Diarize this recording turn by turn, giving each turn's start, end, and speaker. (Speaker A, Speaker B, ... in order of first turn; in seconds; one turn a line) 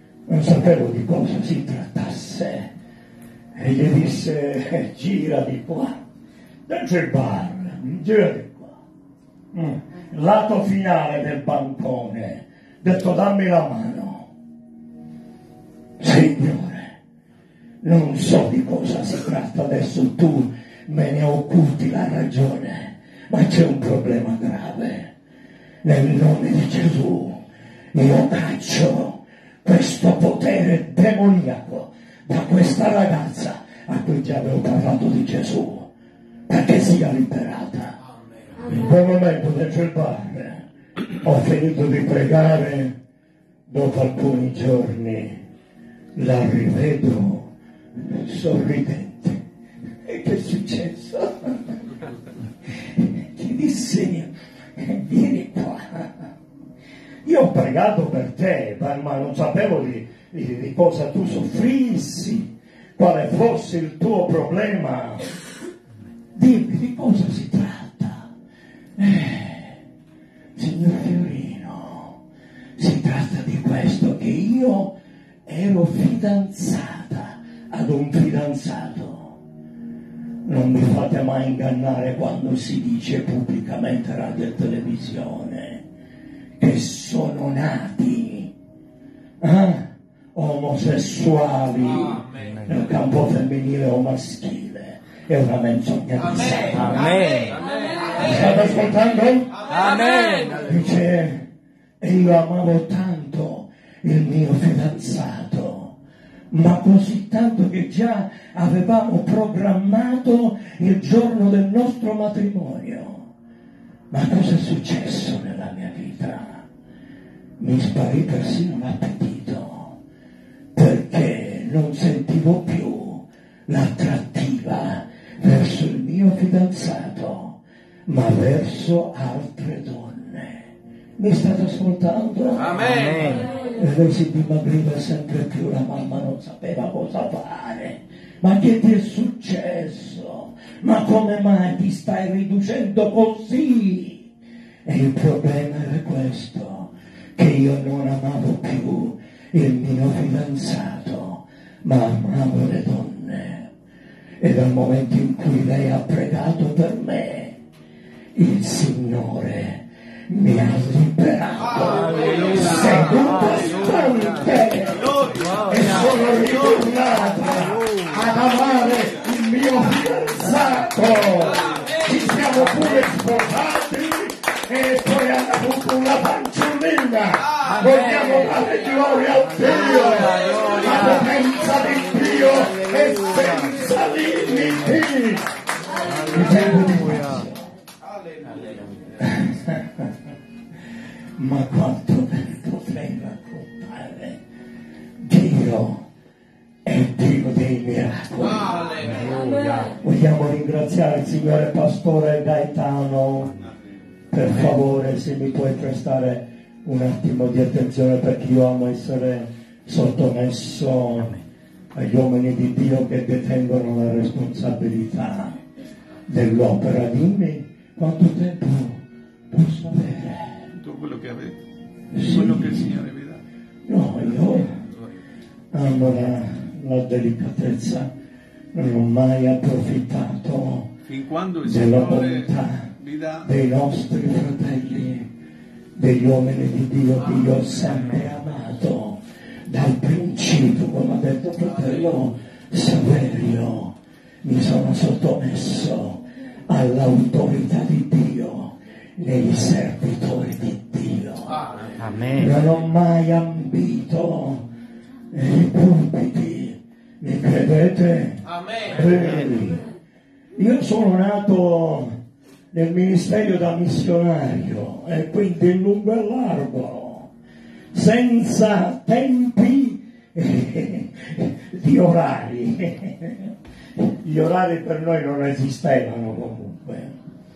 Speaker A: 0.3-2.7
Speaker A: 3.5-6.0
Speaker A: 6.7-8.7
Speaker A: 9.5-14.3
Speaker A: 16.0-16.9
Speaker A: 17.8-25.1
Speaker A: 25.8-27.4
Speaker A: 27.9-35.9
Speaker A: 36.5-38.0
Speaker A: 38.6-42.9
Speaker A: 43.7-45.4
Speaker A: 46.1-49.4
Speaker A: 50.0-51.7
Speaker A: 53.0-56.3
Speaker A: 57.2-65.3
Speaker A: 66.3-68.3
Speaker A: 69.0-69.8
Speaker A: 70.5-72.2
Speaker A: 72.8-74.9
Speaker A: 75.5-79.3
Speaker A: 80.5-85.8
Speaker A: 86.6-88.5
Speaker A: 89.4-97.1
Speaker B: 96.8-97.6
Speaker A: 98.1-99.5
Speaker B: 99.7-100.7
Speaker A: 100.6-101.5
Speaker A: 102.0-105.9
Speaker A: 106.5-113.2
Speaker A: 114.1-116.6
Speaker A: 117.6-119.9
Speaker A: 120.7-132.8
Speaker B: 132.8-133.5
Speaker A: 133.7-144.3
Speaker A: 144.8-153.7
Speaker A: 154.4-157.6
Speaker A: 158.3-165.1
Speaker B: 162.2-162.7
Speaker B: 165.4-166.0
Speaker A: 165.6-185.5
Speaker B: 177.7-178.4
Speaker B: 179.8-181.2
Speaker B: 186.1-186.4
Speaker A: 186.1-187.7
Speaker A: 189.2-190.1
Speaker A: 191.4-194.4
Speaker A: 195.2-196.0
Speaker A: 196.8-198.8
Speaker B: 199.2-199.9
Speaker A: 200.0-203.5
Speaker A: 204.3-211.4
Speaker A: 211.9-215.6
Speaker A: 216.3-220.6
Speaker C: 220.7-221.6
Speaker A: 222.1-222.9
Speaker C: 222.2-223.4
Speaker A: 223.8-224.8
Speaker A: 225.7-228.1
Speaker A: 228.7-230.9
Speaker C: 231.1-233.4
Speaker A: 231.6-232.9
Speaker A: 233.4-235.3
Speaker A: 236.0-251.6
Speaker B: 252.0-252.5
Speaker A: 252.3-254.7
Speaker A: 255.3-259.8
Speaker A: 260.6-262.2
Speaker A: 262.7-267.3
Speaker A: 267.9-277.1